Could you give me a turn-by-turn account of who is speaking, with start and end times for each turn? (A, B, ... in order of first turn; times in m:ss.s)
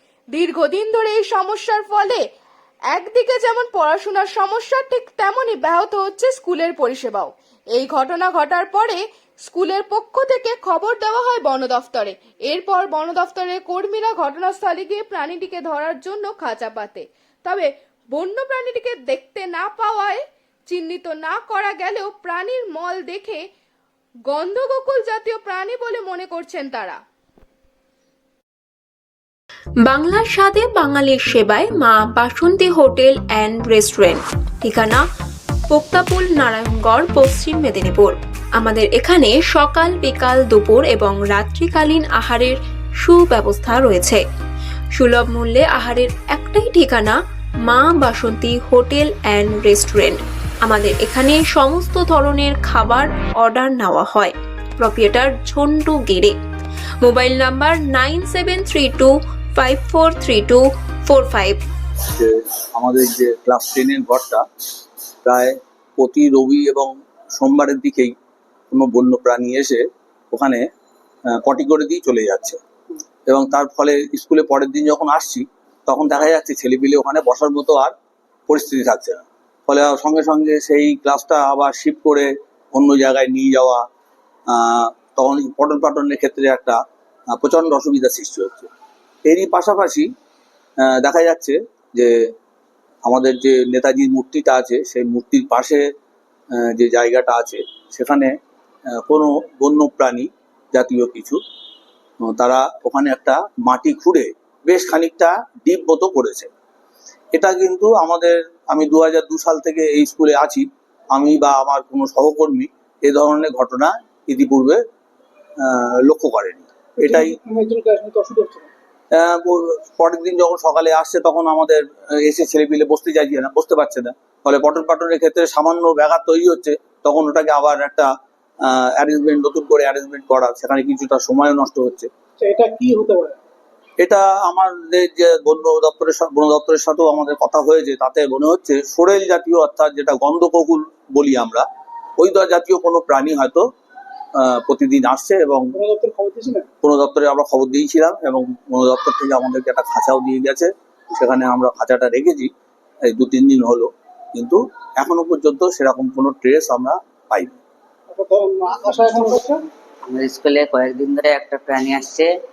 0:00.3-0:02.2 A
0:02.9-0:23.4 A
0:24.3-0:27.0 A
0:29.8-0:35.0 B
0:35.7-0:44.2 B
0:44.9-0:47.1 B
0:47.6-0:56.3 B
0:57.0-1:01.6 B
1:02.1-1:04.4 C
1:05.2-1:08.1 C
1:08.7-1:10.6 C
1:11.3-1:12.6 C
1:13.3-1:17.9 C
1:18.5-1:23.8 C
1:24.5-1:26.8 C
1:27.3-1:28.7 C
1:29.2-1:30.1 C
1:30.8-1:32.1 C
1:33.0-1:35.8 C
1:36.6-1:38.3 C
1:39.0-1:41.4 C
1:42.2-1:46.5 C
1:47.3-1:54.8 C
1:55.6-1:57.3 C
1:57.0-1:58.7 D
1:59.1-2:08.1 C
2:08.6-2:12.1 C
2:12.4-2:13.4 D
2:14.0-2:21.6 C
2:22.2-2:23.6 C
2:24.4-2:25.7 C
2:25.7-2:26.7 D
2:26.8-2:32.5 C
2:33.1-2:37.6 C
2:38.1-2:39.6 D
2:40.0-2:42.3 E